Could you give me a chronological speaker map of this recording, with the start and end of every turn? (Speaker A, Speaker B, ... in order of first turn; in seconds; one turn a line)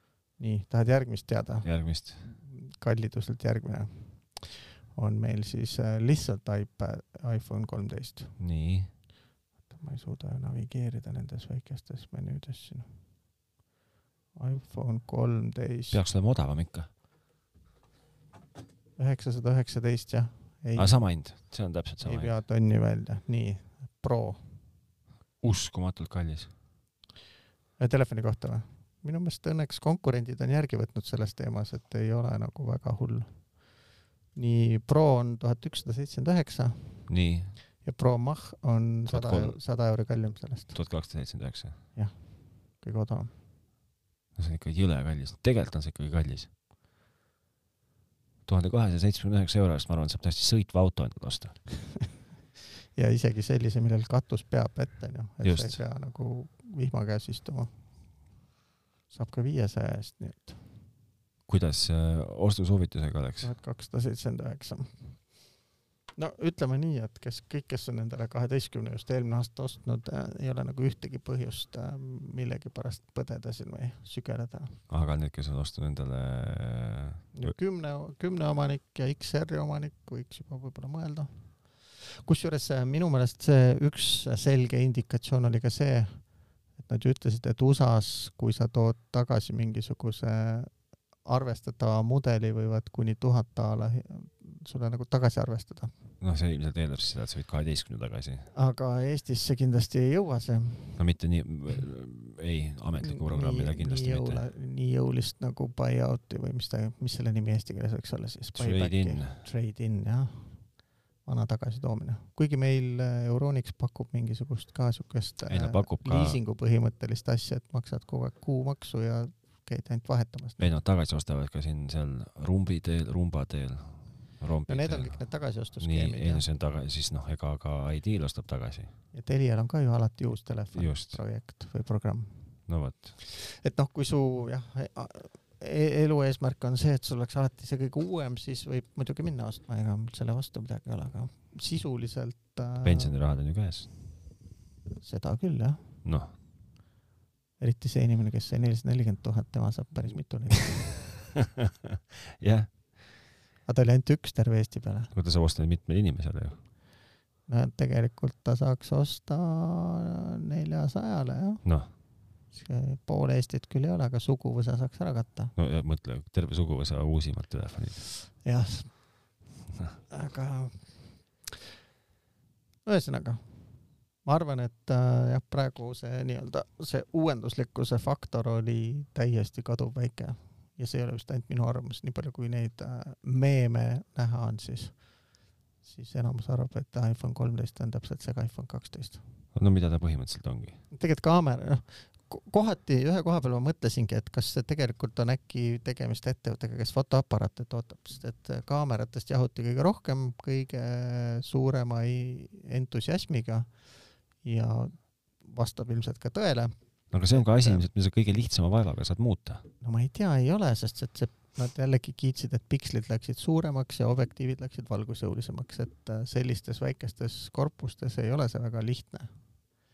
Speaker A: 0.4-8.4
Speaker B: 1.6-2.2
Speaker B: 8.4-8.9
Speaker A: 9.7-12.9
Speaker A: 14.3-16.0
Speaker B: 15.9-16.9
Speaker A: 19.0-21.0
Speaker B: 20.8-22.3
Speaker A: 22.0-24.4
Speaker B: 25.4-26.5
Speaker A: 27.8-33.6
Speaker A: 34.3-37.1
Speaker B: 37.1-37.5
Speaker A: 37.8-40.8
Speaker B: 39.1-39.6
Speaker B: 40.7-41.8
Speaker A: 41.9-43.3
Speaker B: 44.4-46.5
Speaker B: 48.5-51.6
Speaker A: 52.9-57.7
Speaker B: 55.4-55.8
Speaker A: 59.1-60.6
Speaker B: 61.5-63.5
Speaker A: 63.4-65.3
Speaker A: 66.2-74.8
Speaker B: 74.9-77.5
Speaker A: 77.3-86.3
Speaker A: 86.8-90.7
Speaker A: 91.2-95.9
Speaker B: 96.2-98.5
Speaker A: 98.5-101.0
Speaker B: 101.0-104.4
Speaker A: 103.0-110.7
Speaker B: 108.5-109.5
Speaker A: 111.2-120.7
Speaker B: 115.5-116.4
Speaker B: 120.6-125.2
Speaker A: 124.7-126.4
Speaker B: 125.8-128.9
Speaker A: 129.1-132.5
Speaker B: 130.7-131.2
Speaker B: 132.7-133.2
Speaker A: 133.2-143.1
Speaker B: 142.8-143.9
Speaker A: 145.0-145.8
Speaker B: 146.0-146.3
Speaker A: 147.6-151.0
Speaker B: 151.3-152.7
Speaker A: 153.7-155.1
Speaker B: 155.1-156.6
Speaker A: 157.5-161.6
Speaker B: 161.6-161.9
Speaker A: 162.5-165.5
Speaker B: 165.6-168.0
Speaker A: 168.4-169.2
Speaker A: 170.1-171.1
Speaker A: 172.8-173.5
Speaker A: 174.2-185.0
Speaker A: 185.8-189.2
Speaker B: 189.5-190.8
Speaker A: 190.9-203.7
Speaker A: 204.4-206.7
Speaker B: 207.1-209.7
Speaker A: 207.3-207.9
Speaker A: 209.8-219.3